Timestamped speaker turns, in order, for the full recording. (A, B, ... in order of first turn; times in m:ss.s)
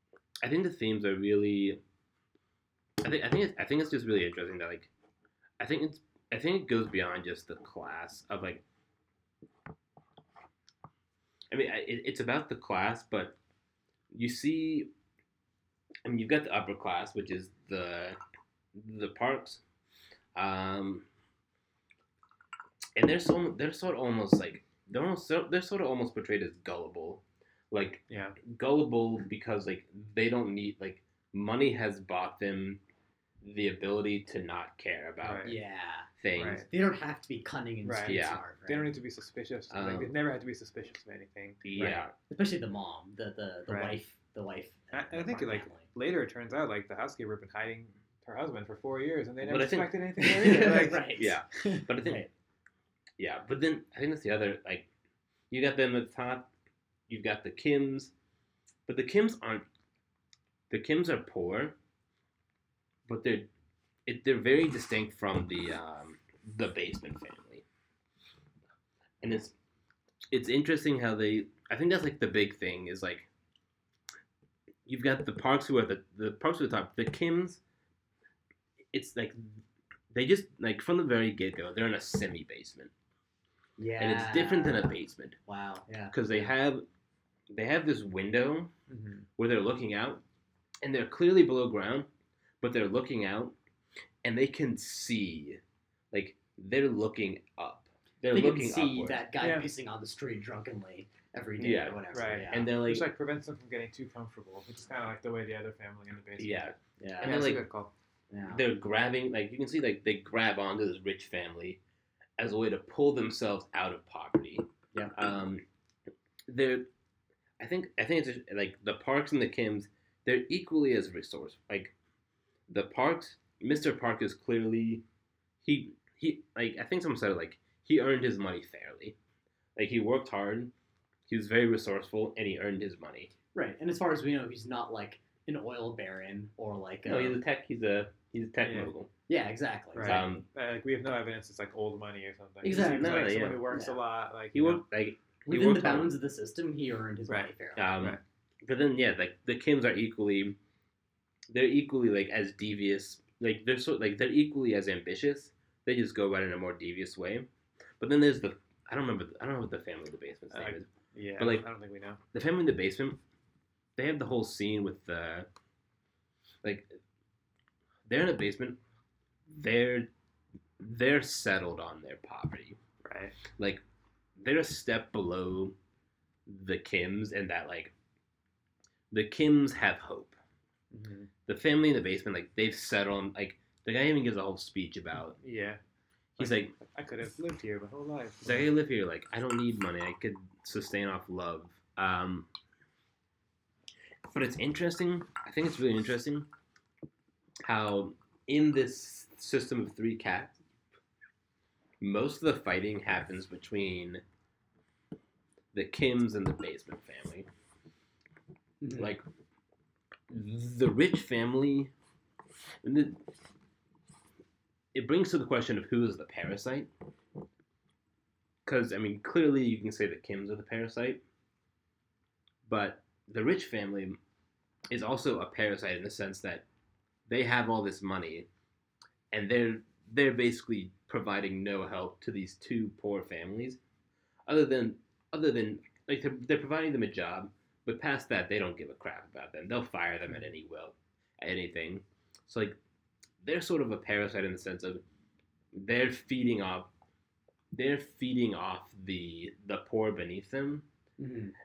0:00.4-0:01.8 A
0:03.0-0:04.9 A
0:05.6-0:08.6 A
0:11.5-0:13.4 A
0:14.1-0:14.9 A
0:16.0-0:18.2 A
0:18.7-0:19.6 A
0:20.3-0:21.0 A
0:23.0-0:32.8 A
0:28.1-0:28.4 B
0:33.4-0:35.6 A
0:35.2-0:35.6 B
0:35.4-0:36.1 C
0:36.2-0:36.6 A
0:36.3-0:36.7 B
0:36.6-0:38.9 C
0:37.8-0:41.6 B
0:38.1-0:38.4 A
0:39.7-0:40.1 A
0:41.6-0:42.1 A
0:41.8-0:45.9 C
0:43.7-0:43.9 B
0:44.9-0:51.8 B
0:49.4-0:52.2 A
0:50.2-0:51.4 C
0:52.0-0:52.3 C
0:53.2-0:54.9 A
0:55.5-0:56.5 A
0:57.1-0:58.1 A
0:58.9-0:59.6 A
1:00.7-1:01.7 A
1:03.1-1:03.5 A
1:04.0-1:07.6 A
1:09.2-1:09.5 A
1:10.3-1:13.3 A
1:14.8-1:17.6 A
1:18.9-1:22.9 A
1:23.8-1:24.9 C
1:24.0-1:25.4 A
1:25.5-1:26.2 C
1:26.1-1:26.8 A
1:27.5-1:28.7 A
1:28.9-1:29.3 B
1:29.4-1:30.2 A
1:30.8-1:32.1 A
1:32.6-1:33.5 A
1:34.2-1:35.6 A
1:36.1-1:39.2 A
1:38.3-1:42.7 C
1:39.4-1:39.7 B
1:41.6-1:43.1 A
1:42.1-1:46.7 B
1:46.4-1:47.6 A
1:47.0-1:47.3 C
1:47.2-1:47.9 B
1:48.3-1:48.6 C
1:48.5-1:51.8 A
1:52.4-1:55.6 A
1:56.5-1:56.9 A
1:57.6-2:01.9 A
2:02.7-2:05.0 A
2:05.6-2:09.2 A
2:09.8-2:10.7 A
2:11.3-2:13.3 A
2:13.5-2:17.4 C
2:17.0-2:19.1 A
2:18.6-2:18.9 B
2:19.3-2:20.2 C
2:19.9-2:24.8 B
2:20.0-2:20.4 A
2:22.6-2:24.0 C
2:22.7-2:23.6 A
2:24.5-2:26.1 A
2:25.5-2:27.8 C
2:27.3-2:28.2 B
2:27.8-2:30.6 A
2:31.5-2:37.5 A
2:38.0-2:41.6 A
2:40.5-2:42.2 B
2:42.3-2:43.2 A
2:44.0-2:45.5 A
2:46.6-2:46.9 A
2:48.1-2:48.8 A
2:49.5-2:50.1 A
2:50.8-2:52.8 A
2:53.0-2:53.4 B
2:53.5-2:53.8 A
2:54.4-2:55.7 A
2:56.5-2:57.9 A
2:59.1-3:00.4 A
3:00.9-3:01.3 B
3:01.5-3:05.4 A
3:05.4-3:05.8 B
3:06.4-3:06.7 A
3:06.4-3:08.7 B
3:08.4-3:12.5 A
3:14.3-3:16.5 A
3:17.6-3:20.6 A
3:22.0-3:24.2 A
3:25.7-3:27.5 A
3:28.8-3:29.1 C
3:28.9-3:29.2 A
3:30.3-3:31.9 A
3:32.8-3:33.2 A
3:34.9-3:36.9 A
3:38.6-3:41.2 A
3:42.6-3:44.2 A
3:44.9-3:46.6 A
3:47.3-3:48.5 A
3:49.3-3:53.8 A
3:54.4-4:02.8 A
4:03.4-4:05.0 A
4:05.7-4:06.9 A
4:07.7-4:10.8 A
4:11.2-4:11.5 C